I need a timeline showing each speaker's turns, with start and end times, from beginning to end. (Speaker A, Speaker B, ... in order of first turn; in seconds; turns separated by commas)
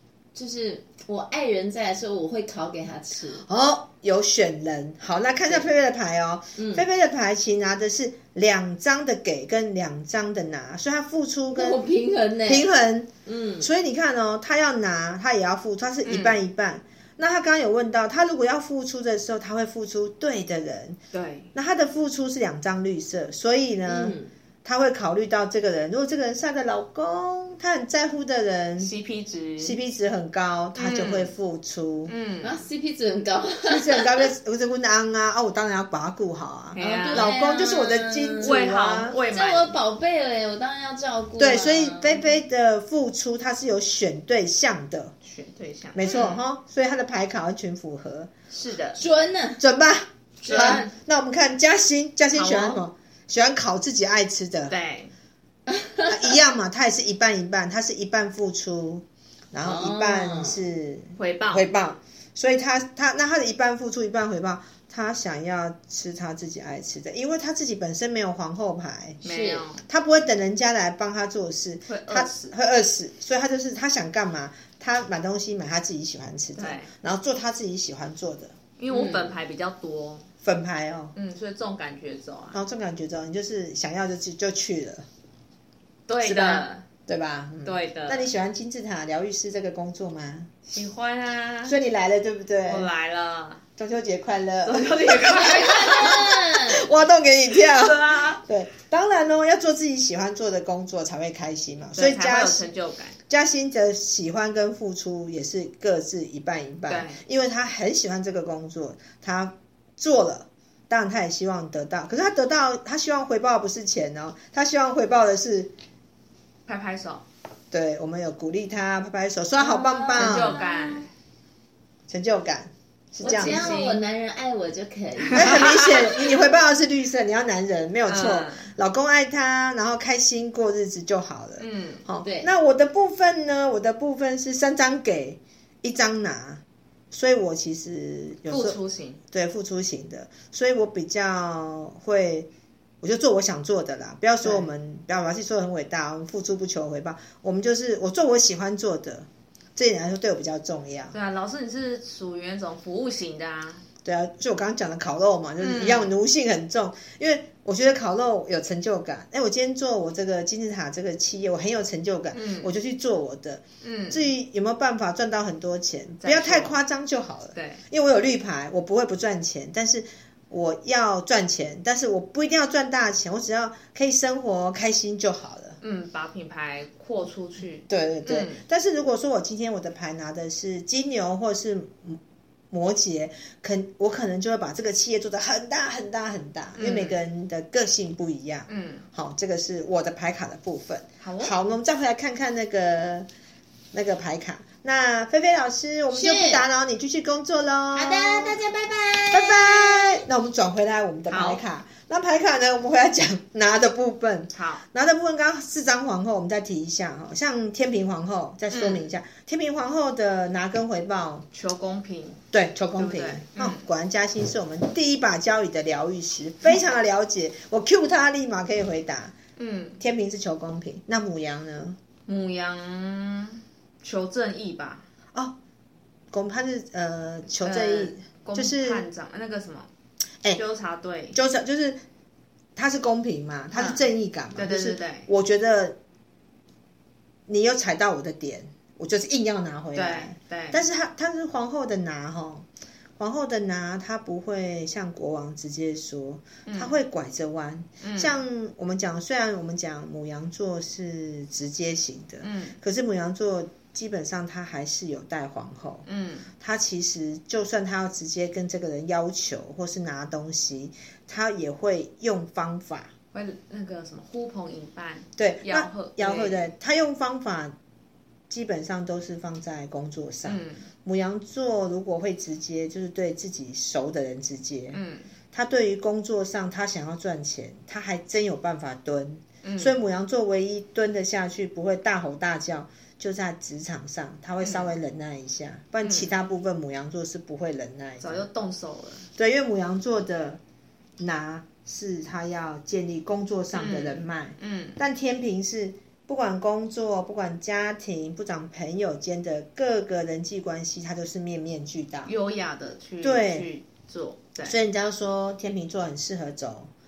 Speaker A: 0.3-3.4, Speaker B: 3.3-11.9, Speaker A: 6.5-6.8, Speaker A: 11.5-12.7, Speaker B: 12.4-21.0, Speaker A: 13.2-13.7, Speaker C: 16.0-16.4, Speaker C: 21.1-21.5, Speaker B: 21.5-28.9, Speaker A: 23.9-24.3, Speaker C: 28.8-29.8, Speaker B: 29.6-32.1, Speaker C: 30.8-31.3, Speaker C: 32.1-32.6, Speaker A: 32.4-34.3, Speaker B: 33.6-39.2, Speaker C: 36.7-37.4, Speaker A: 36.8-38.6, Speaker C: 38.4-39.7, Speaker A: 39.3-42.4, Speaker B: 41.4-45.1, Speaker C: 45.2-46.4, Speaker B: 45.9-48.3, Speaker C: 48.5-49.0, Speaker A: 48.9-49.6, Speaker B: 49.6-54.8, Speaker A: 50.4-50.9, Speaker C: 50.4-50.9, Speaker C: 52.3-52.8, Speaker C: 54.7-55.1, Speaker A: 55.7-56.1, Speaker B: 56.1-69.2, Speaker A: 59.6-60.6, Speaker C: 61.1-61.6, Speaker A: 69.2-69.7, Speaker C: 69.2-69.8, Speaker B: 69.8-78.5, Speaker C: 71.9-72.5, Speaker C: 76.6-76.9, Speaker C: 78.8-80.2, Speaker A: 78.9-79.3, Speaker B: 80.4-81.1, Speaker C: 81.1-82.6, Speaker B: 82.5-85.0, Speaker C: 86.1-86.8, Speaker B: 86.2-90.5, Speaker C: 87.6-88.3, Speaker C: 90.7-91.8, Speaker B: 91.7-92.9, Speaker C: 92.6-93.6, Speaker B: 93.8-102.7, Speaker C: 94.6-96.3, Speaker A: 95.6-96.9, Speaker C: 97.5-98.4, Speaker C: 101.9-103.2, Speaker B: 103.3-115.7, Speaker C: 106.9-107.2, Speaker C: 116.7-117.2, Speaker B: 117.7-120.6, Speaker A: 119.6-121.0, Speaker C: 120.2-121.1, Speaker B: 122.1-123.8, Speaker A: 123.2-125.7, Speaker C: 123.2-124.0, Speaker C: 125.2-126.2, Speaker B: 125.3-138.8, Speaker C: 128.1-128.7, Speaker C: 131.6-132.0, Speaker A: 132.2-132.5, Speaker C: 138.5-139.2, Speaker B: 139.3-142.5, Speaker B: 143.0-151.1, Speaker C: 144.4-144.7, Speaker C: 151.1-153.8, Speaker B: 154.0-175.8, Speaker C: 155.6-156.1, Speaker C: 162.3-162.7, Speaker C: 163.8-164.3, Speaker C: 166.2-166.8, Speaker C: 167.5-167.8, Speaker C: 175.8-178.6, Speaker B: 177.9-182.2, Speaker B: 182.7-193.3, Speaker C: 186.8-187.2, Speaker C: 188.7-189.1, Speaker C: 191.2-191.7, Speaker B: 193.9-198.6, Speaker A: 196.1-196.7, Speaker A: 197.9-200.2, Speaker B: 199.3-211.5, Speaker C: 201.3-201.6, Speaker C: 204.5-204.8, Speaker C: 208.7-209.1, Speaker C: 211.5-212.4, Speaker B: 212.5-219.3, Speaker C: 212.9-213.8, Speaker C: 219.6-220.0, Speaker B: 220.0-222.0, Speaker C: 222.2-225.1, Speaker B: 226.3-229.1, Speaker C: 227.6-229.9, Speaker C: 230.5-231.4, Speaker B: 231.3-232.0, Speaker B: 232.8-236.0, Speaker C: 233.7-235.3, Speaker B: 237.5-242.7, Speaker C: 239.9-240.8, Speaker B: 243.2-256.1, Speaker C: 246.7-246.9, Speaker C: 248.0-248.4, Speaker C: 252.4-252.8, Speaker C: 256.1-256.5, Speaker B: 256.6-263.1, Speaker C: 263.3-266.7, Speaker B: 265.4-267.7, Speaker B: 268.5-275.0, Speaker C: 270.4-270.8, Speaker C: 274.9-275.3, Speaker B: 275.5-288.4, Speaker C: 279.6-280.0, Speaker C: 284.6-284.9, Speaker C: 286.0-286.3, Speaker C: 288.2-289.3, Speaker B: 289.3-290.6, Speaker B: 291.2-302.3, Speaker C: 293.7-295.0, Speaker C: 302.2-304.8, Speaker B: 303.2-303.7, Speaker B: 304.6-306.9